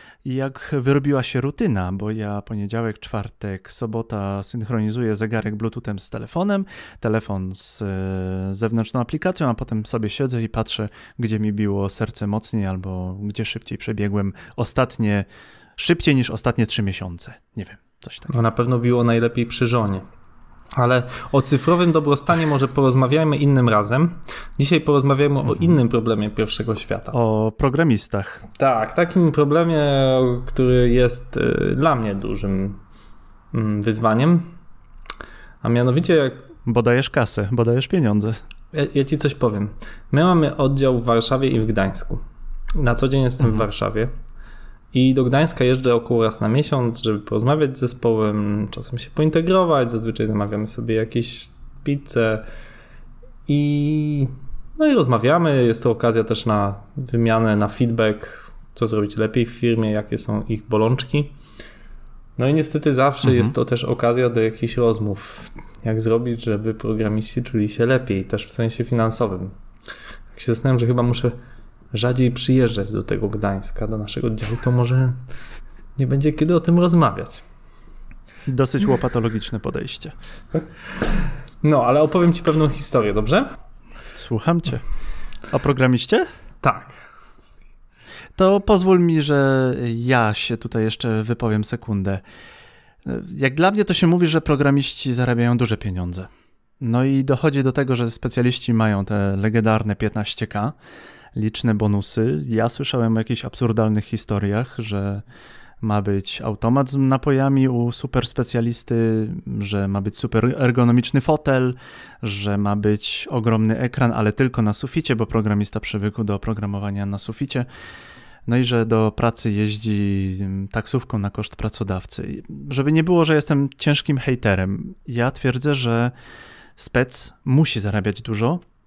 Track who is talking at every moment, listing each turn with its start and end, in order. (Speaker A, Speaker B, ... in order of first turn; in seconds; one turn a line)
Speaker A: 0.2-18.3
Speaker B: 18.3-20.0
Speaker B: 20.7-27.1
Speaker A: 25.5-25.7
Speaker A: 27.1-28.4
Speaker B: 28.6-32.8
Speaker B: 33.5-34.5
Speaker B: 35.6-36.5
Speaker A: 36.6-38.4
Speaker B: 38.7-42.2
Speaker B: 42.8-44.1
Speaker B: 44.9-52.5
Speaker B: 53.5-61.4
Speaker B: 62.4-69.5
Speaker A: 63.2-63.5
Speaker B: 70.3-71.3
Speaker B: 71.9-75.2
Speaker B: 76.0-77.4
Speaker A: 78.5-80.1
Speaker B: 81.6-83.5
Speaker A: 84.1-84.8
Speaker A: 85.5-86.2
Speaker B: 86.6-87.0
Speaker A: 88.3-92.2
Speaker A: 93.0-96.3
Speaker A: 96.8-100.7
Speaker A: 101.3-105.2
Speaker A: 105.8-117.7
Speaker A: 118.5-126.1
Speaker A: 126.8-128.6